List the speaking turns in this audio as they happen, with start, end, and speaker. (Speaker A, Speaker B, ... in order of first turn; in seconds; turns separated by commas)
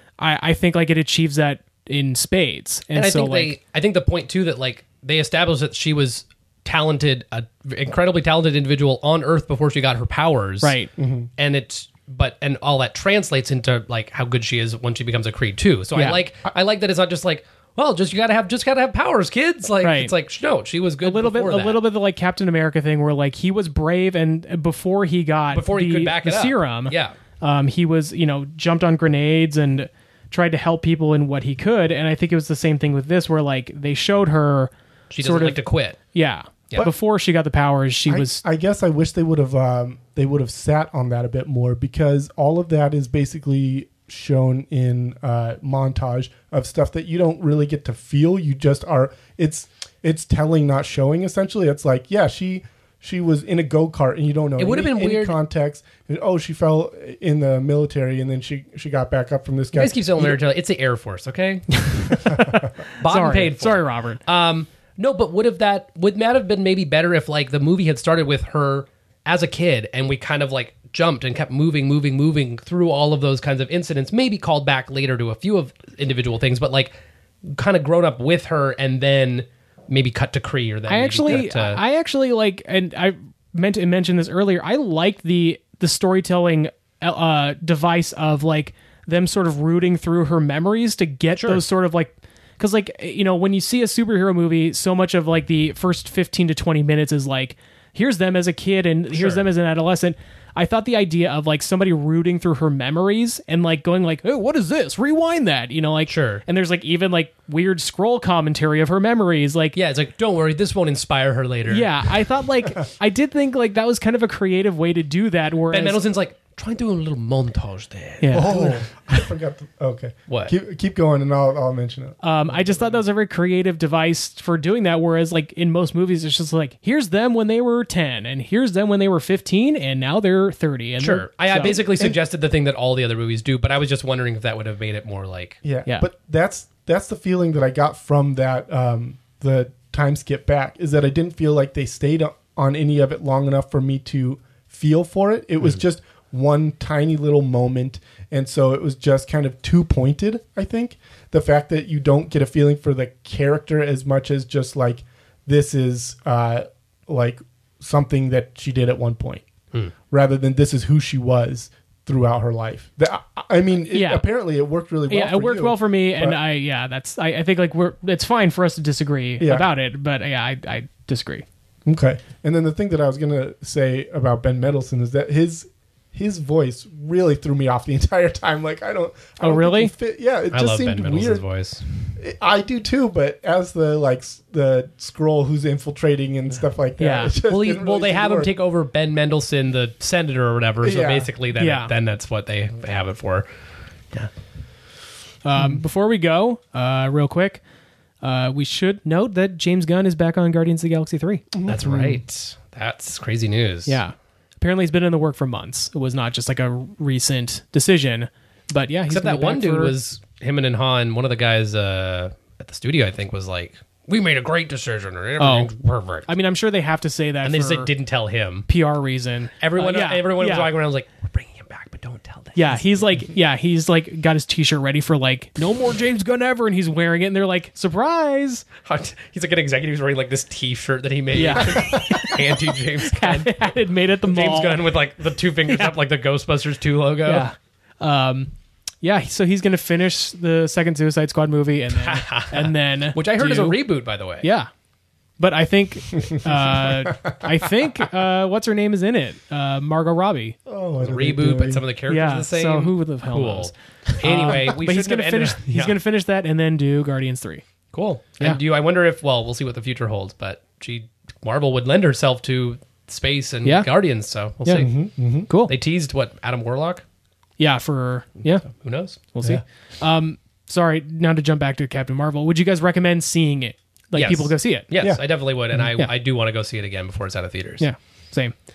Speaker A: 0.2-3.5, Speaker B: 2.9-10.8, Speaker A: 10.6-10.9, Speaker C: 11.0-11.3, Speaker B: 11.4-21.8, Speaker A: 15.9-16.2, Speaker A: 19.8-20.1, Speaker A: 21.0-38.4, Speaker B: 25.5-27.1, Speaker B: 35.1-36.0, Speaker C: 38.1-60.4, Speaker B: 54.6-55.4, Speaker B: 59.7-62.1, Speaker A: 61.9-64.2, Speaker C: 62.2-62.7, Speaker B: 63.0-81.8, Speaker A: 80.9-109.8, Speaker B: 91.4-91.6, Speaker B: 99.1-99.5, Speaker B: 106.1-106.4, Speaker B: 109.7-112.0, Speaker A: 111.7-116.0, Speaker B: 115.7-118.7, Speaker A: 118.2-118.8, Speaker C: 118.3-123.0, Speaker B: 120.3-120.5, Speaker A: 122.2-131.8, Speaker B: 131.0-135.6, Speaker C: 131.8-132.2, Speaker C: 135.6-159.4, Speaker C: 160.1-166.4, Speaker A: 163.9-164.2, Speaker A: 165.1-171.4, Speaker C: 169.4-169.7, Speaker C: 171.8-181.4, Speaker A: 179.4-179.9, Speaker B: 180.5-181.8, Speaker C: 182.2-188.5, Speaker A: 187.0-187.3, Speaker B: 187.5-193.5, Speaker C: 190.8-191.3, Speaker A: 191.5-191.9, Speaker A: 195.4-197.6, Speaker A: 198.2-201.4, Speaker C: 201.5-202.2, Speaker B: 201.7-204.0, Speaker A: 203.8-209.9, Speaker B: 209.1-216.3, Speaker A: 215.4-215.7, Speaker A: 216.3-217.9, Speaker B: 217.4-218.7, Speaker A: 218.7-220.7, Speaker B: 219.6-223.1, Speaker A: 222.6-228.7, Speaker B: 228.8-233.7, Speaker A: 231.3-232.4, Speaker A: 233.1-234.9, Speaker B: 234.2-237.5, Speaker A: 235.7-235.9, Speaker A: 237.2-243.8, Speaker B: 241.9-244.5, Speaker A: 244.4-244.7, Speaker A: 245.4-250.6, Speaker C: 246.4-247.9, Speaker C: 250.7-251.8, Speaker B: 251.0-255.9, Speaker A: 252.1-257.6, Speaker B: 257.9-264.9, Speaker A: 264.6-264.9, Speaker C: 264.7-265.5, Speaker A: 265.5-265.7, Speaker B: 265.7-267.0, Speaker A: 267.6-268.7, Speaker B: 268.6-269.3, Speaker A: 269.2-274.9, Speaker B: 274.1-277.9, Speaker A: 277.8-278.5